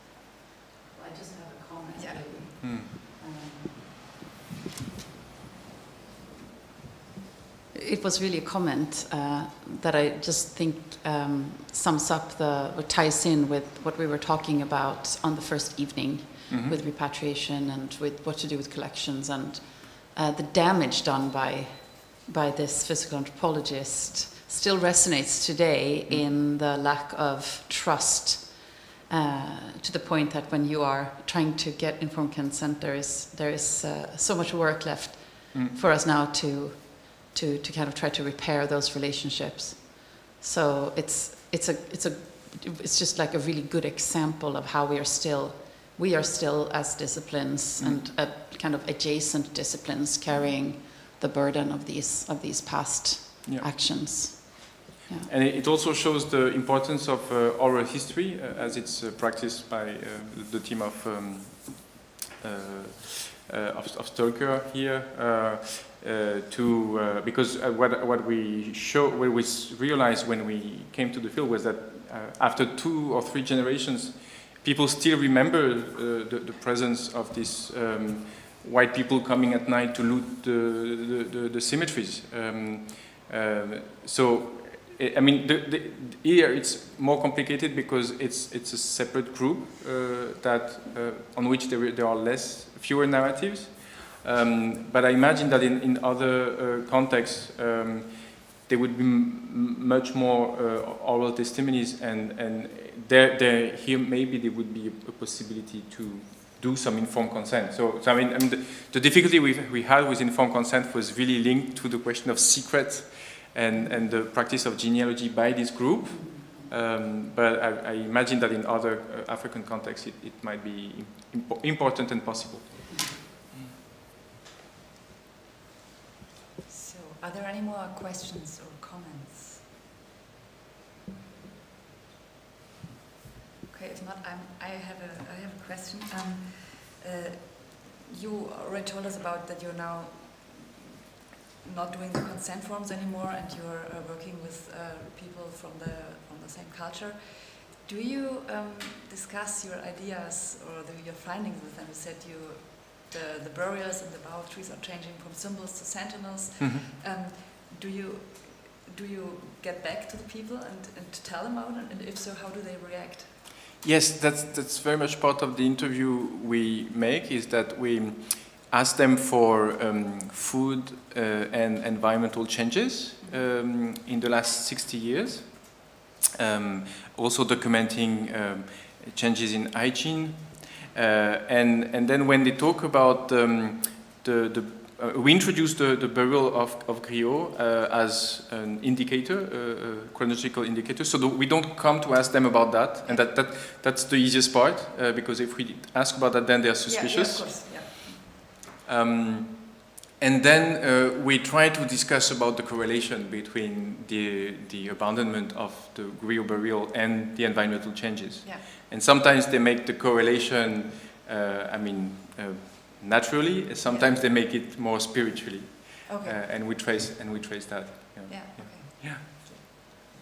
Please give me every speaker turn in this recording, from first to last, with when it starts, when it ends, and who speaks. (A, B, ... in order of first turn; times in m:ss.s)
0:00.9-0:03.9 A
0:02.0-0:02.3 B
0:02.6-0:02.9 C
0:07.7-0:55.3 A
0:16.5-0:16.8 C
0:47.8-0:48.0 C
0:53.4-0:53.7 C
0:55.3-2:03.7 C
1:56.1-1:56.6 A
2:02.9-2:03.2 A
2:06.7-2:09.6 B
2:13.7-2:20.7 B
2:21.6-2:43.4 B
2:36.6-2:36.9 C
2:43.8-3:17.9 C
3:16.8-3:18.4 B
3:18.8-3:39.4 C
3:36.0-3:36.4 B
3:38.3-3:39.4 B